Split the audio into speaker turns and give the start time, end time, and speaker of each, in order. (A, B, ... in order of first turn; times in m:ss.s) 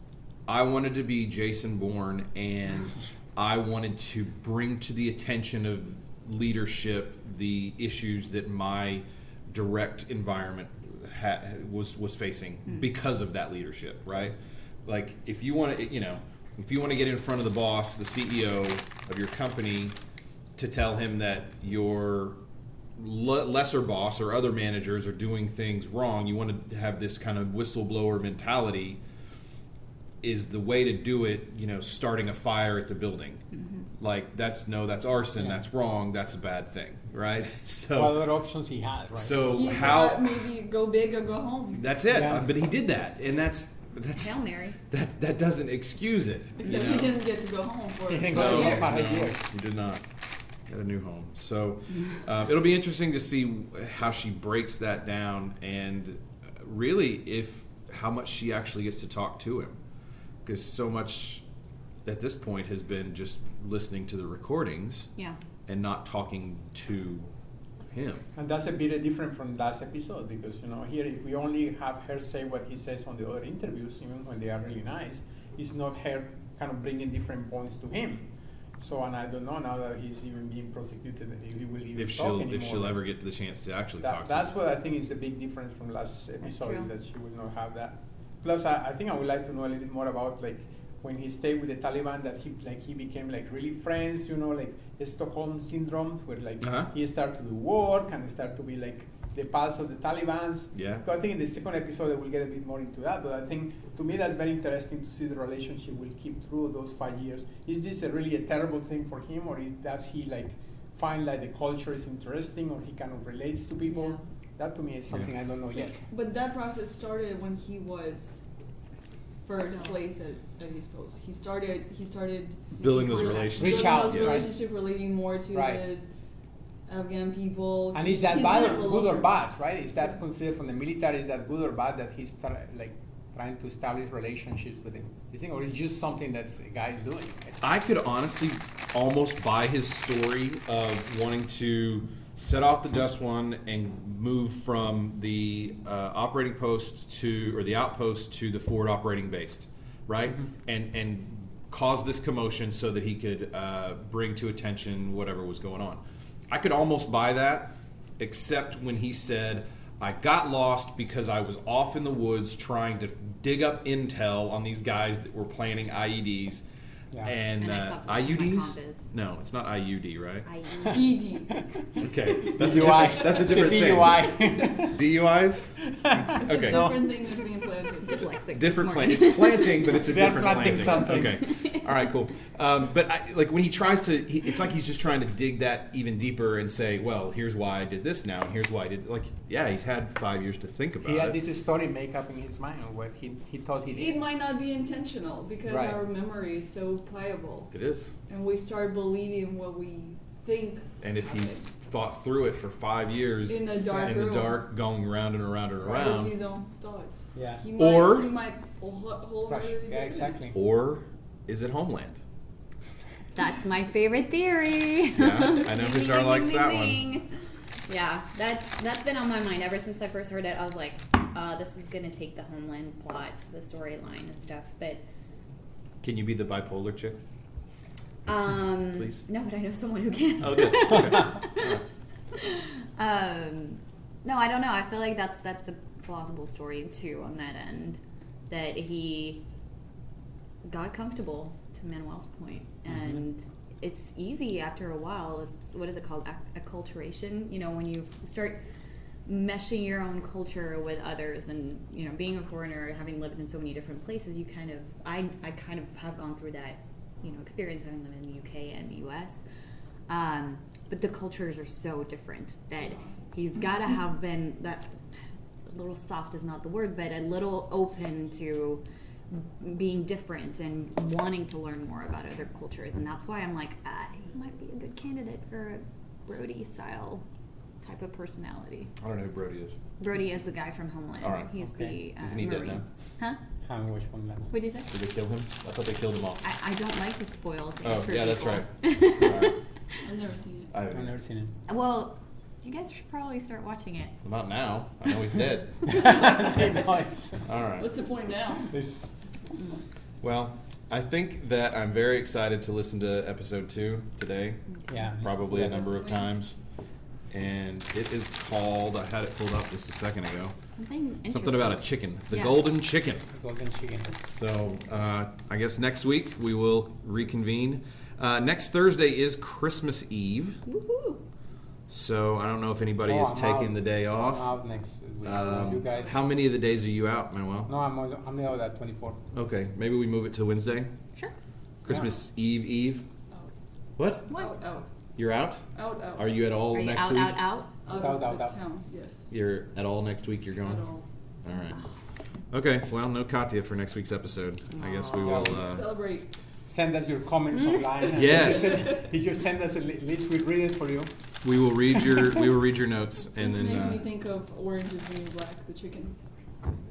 0:00.5-0:20.0 A
0:20.6-0:22.4 A
0:23.0-0:29.0 A
0:30.2-0:33.4 A
0:33.5-0:33.8 B
0:34.0-0:38.3 A
0:37.9-0:39.9 C
0:39.2-0:40.4 A
0:39.4-0:41.8 D
0:41.7-0:47.2 A
0:42.1-0:42.5 C
0:44.1-0:44.8 B
0:46.6-0:49.0 D
0:48.1-0:49.5 C
0:48.3-0:50.0 A
0:50.7-0:59.8 A
1:00.4-1:01.4 A
1:02.0-1:05.1 A
1:05.7-1:07.3 A
1:07.9-1:08.2 A
1:08.4-1:23.0 C
1:22.0-1:24.5 A
1:24.0-1:56.0 C
1:26.4-1:26.9 B
1:36.6-1:36.9 A
1:40.7-1:41.0 A
1:53.9-1:54.2 B
1:56.1-1:58.4 D
1:59.4-2:06.0 D
1:59.6-2:00.0 B
2:02.8-2:04.4 A
2:03.6-2:04.5 C
2:05.5-2:05.8 C
2:06.9-2:09.4 D
2:07.9-2:17.6 C
2:17.6-2:46.6 A
2:47.2-2:50.5 A
2:47.6-2:49.1 B
2:50.4-2:51.2 B
2:50.9-2:51.6 D
2:52.0-2:56.9 A
2:52.4-2:55.0 C
2:55.8-2:57.1 C
2:56.4-2:58.4 D
2:58.0-3:00.0 B
2:58.5-3:11.4 A
2:59.9-3:01.4 C
3:00.6-3:01.8 B
3:11.0-3:14.2 C
3:13.9-3:17.7 D
3:15.6-3:16.0 C
3:17.7-3:18.1 A
3:18.3-3:21.6 D
3:21.0-3:26.3 A
3:23.5-3:24.6 D
3:25.8-3:30.4 D
3:27.3-3:27.6 C
3:27.7-3:28.3 A
3:29.5-3:30.6 C
3:30.5-3:32.2 A
3:33.3-3:37.3 B
3:35.1-3:37.0 A
3:37.9-3:45.0 B
3:46.0-3:47.2 A
3:48.2-3:51.8 B
3:48.9-3:49.2 A
3:50.4-3:51.8 A
3:52.3-3:59.4 B
4:00.6-4:08.6 B
4:09.2-4:19.3 B
4:20.1-4:24.9 B
4:22.8-4:23.2 D
4:25.7-4:37.2 B
4:37.8-4:38.9 B
4:39.0-4:39.8 A
4:40.0-4:43.4 B
4:41.2-4:41.5 A
4:41.6-4:42.0 C
4:42.2-4:42.8 A
4:43.6-4:44.5 C
4:44.5-4:44.9 B
4:44.9-4:46.4 A
4:46.4-4:49.9 B
4:47.8-4:49.6 A
4:50.0-4:50.7 D
4:50.7-4:51.1 A
4:50.9-4:51.5 C
4:51.7-4:54.1 B
4:54.2-4:55.8 A
4:55.8-4:57.5 C
4:57.4-4:57.9 A
4:57.8-4:58.7 D
4:58.7-4:59.1 C
5:00.2-5:04.6 A
5:04.9-5:05.9 C
5:05.2-5:06.6 A
5:05.5-5:06.4 D
5:07.3-5:10.6 A
5:10.7-5:12.7 B
5:11.3-5:13.2 A
5:13.3-5:14.2 C
5:14.2-5:20.6 A
5:20.7-5:21.2 B
5:21.9-5:24.5 A
5:23.0-5:26.2 C
5:25.2-5:27.7 A
5:25.6-5:26.2 D
5:27.7-5:29.2 C
5:29.3-5:30.9 A
5:31.8-5:33.0 A
5:31.9-5:32.1 C
5:34.0-5:34.3 A
5:34.3-5:34.6 B
5:34.3-5:34.9 D
5:35.2-5:37.5 A
5:35.7-5:36.5 D
5:36.7-5:37.8 B
5:37.8-5:39.3 D
5:37.9-5:38.6 C
5:39.3-5:40.8 A
5:40.6-5:41.1 D
5:41.4-5:41.8 A
5:42.5-5:45.9 A
5:44.7-5:45.4 B
5:45.2-5:45.8 C
5:45.4-5:46.3 D
5:46.6-5:51.1 C
5:48.1-5:49.0 A
5:48.6-5:49.0 D
5:51.4-5:54.1 A
5:53.4-5:56.2 D